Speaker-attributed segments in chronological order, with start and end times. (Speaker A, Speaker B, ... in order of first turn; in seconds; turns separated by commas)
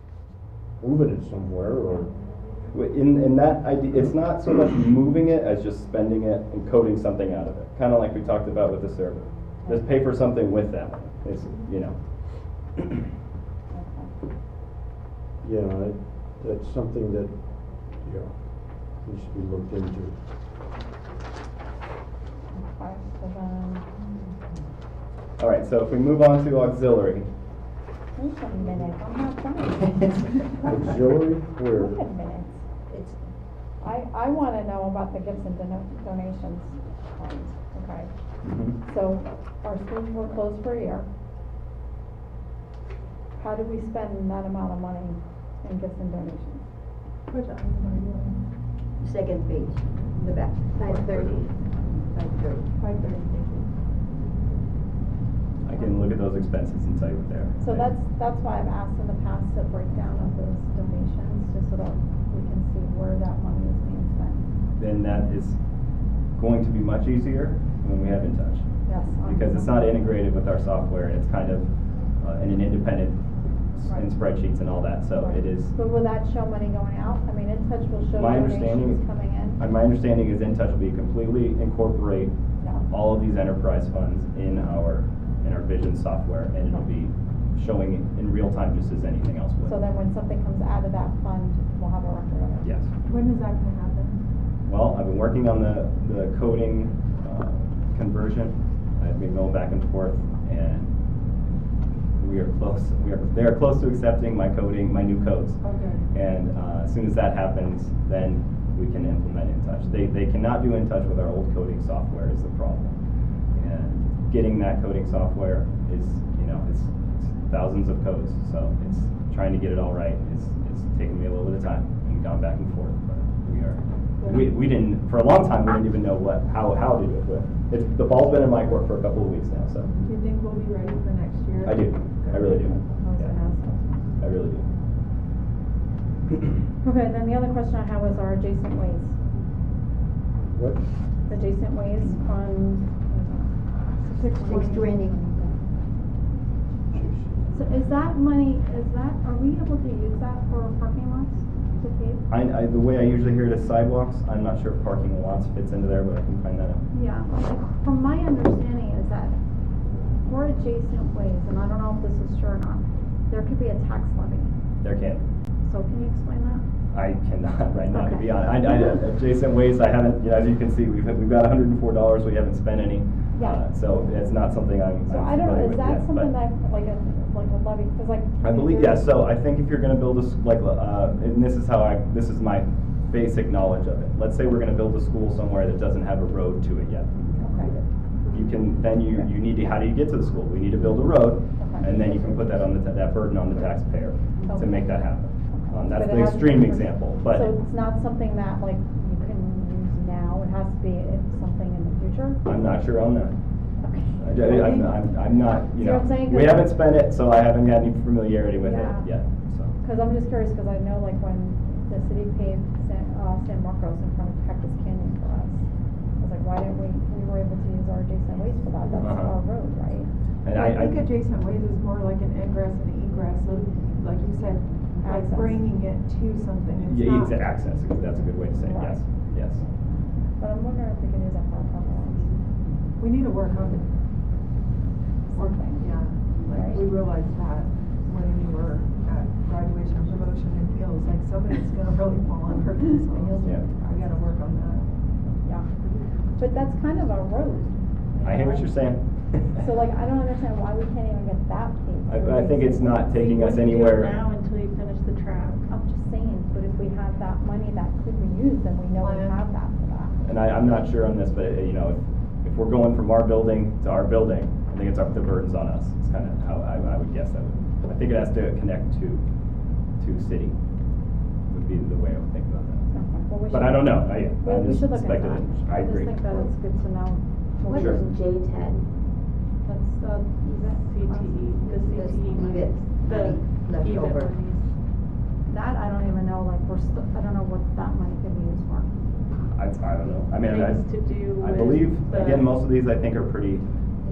Speaker A: 0.8-2.1, Speaker B: 2.7-11.9, Speaker C: 13.7-14.1, Speaker A: 15.4-17.4, Speaker A: 18.0-20.2, Speaker C: 22.5-23.9, Speaker B: 25.4-27.3, Speaker C: 28.1-30.9, Speaker A: 30.6-32.0, Speaker C: 31.7-32.6, Speaker D: 32.9-33.2, Speaker C: 33.8-38.1, Speaker B: 38.4-38.8, Speaker C: 38.8-41.1, Speaker C: 43.4-46.6, Speaker E: 47.3-48.4, Speaker D: 49.0-51.5, Speaker B: 50.8-51.5, Speaker D: 52.1-52.7, Speaker E: 52.7-53.7, Speaker B: 55.6-57.9, Speaker C: 57.6-64.4, Speaker B: 64.8-65.6, Speaker B: 66.3-68.6, Speaker C: 68.8-69.7, Speaker B: 69.2-71.7, Speaker B: 72.2-73.2, Speaker B: 73.8-75.7, Speaker C: 75.2-79.6, Speaker B: 78.1-79.0, Speaker B: 79.6-82.3, Speaker C: 82.6-82.8, Speaker B: 82.9-89.7, Speaker C: 89.6-92.7, Speaker B: 92.6-92.9, Speaker E: 93.0-94.2, Speaker B: 94.7-100.9, Speaker B: 102.2-105.6, Speaker E: 105.6-106.1, Speaker B: 106.1-113.0, Speaker B: 113.5-129.9, Speaker E: 124.2-124.5, Speaker E: 129.9-132.6, Speaker B: 131.6-133.3, Speaker C: 132.6-134.2, Speaker B: 134.2-134.7, Speaker C: 136.8-139.2, Speaker A: 140.5-140.8, Speaker C: 141.3-145.5, Speaker E: 144.1-144.4, Speaker D: 144.4-145.3, Speaker A: 146.9-147.7, Speaker C: 147.5-152.2, Speaker B: 152.3-156.8, Speaker C: 156.9-159.4, Speaker C: 160.2-164.5, Speaker B: 164.8-165.2, Speaker C: 165.6-166.6, Speaker B: 166.9-176.3, Speaker C: 167.9-168.5, Speaker C: 173.3-173.6, Speaker C: 175.1-179.1, Speaker B: 178.4-187.2, Speaker E: 187.4-187.8, Speaker C: 187.4-187.7, Speaker B: 188.3-197.5, Speaker C: 191.6-192.3, Speaker C: 194.5-194.9, Speaker C: 195.5-202.4, Speaker B: 202.4-203.3, Speaker C: 203.8-204.2, Speaker B: 204.2-209.7, Speaker E: 204.3-205.0, Speaker C: 205.7-206.7, Speaker C: 208.6-209.1, Speaker C: 209.8-215.7, Speaker C: 216.2-220.1, Speaker B: 219.0-219.3, Speaker B: 220.4-221.0, Speaker E: 220.5-227.4, Speaker C: 225.0-225.6, Speaker B: 226.8-229.6, Speaker C: 228.6-229.1, Speaker C: 230.4-232.3, Speaker E: 233.0-233.9, Speaker C: 235.3-235.9, Speaker E: 235.3-244.9, Speaker C: 236.4-236.9, Speaker C: 243.2-243.8, Speaker C: 245.4-245.7, Speaker C: 246.3-248.8, Speaker B: 248.2-249.6, Speaker C: 249.5-253.2, Speaker B: 252.1-254.2, Speaker F: 253.1-255.7, Speaker C: 255.7-260.2, Speaker E: 259.0-259.4, Speaker B: 260.2-269.2, Speaker B: 270.0-270.6, Speaker B: 271.5-272.9, Speaker C: 272.9-278.0, Speaker B: 273.5-276.2, Speaker D: 277.6-278.9, Speaker B: 277.7-278.0, Speaker C: 279.6-282.9, Speaker F: 280.8-284.7, Speaker D: 281.9-284.3, Speaker C: 285.5-288.9, Speaker B: 289.5-290.8, Speaker F: 290.4-292.5, Speaker B: 291.4-293.6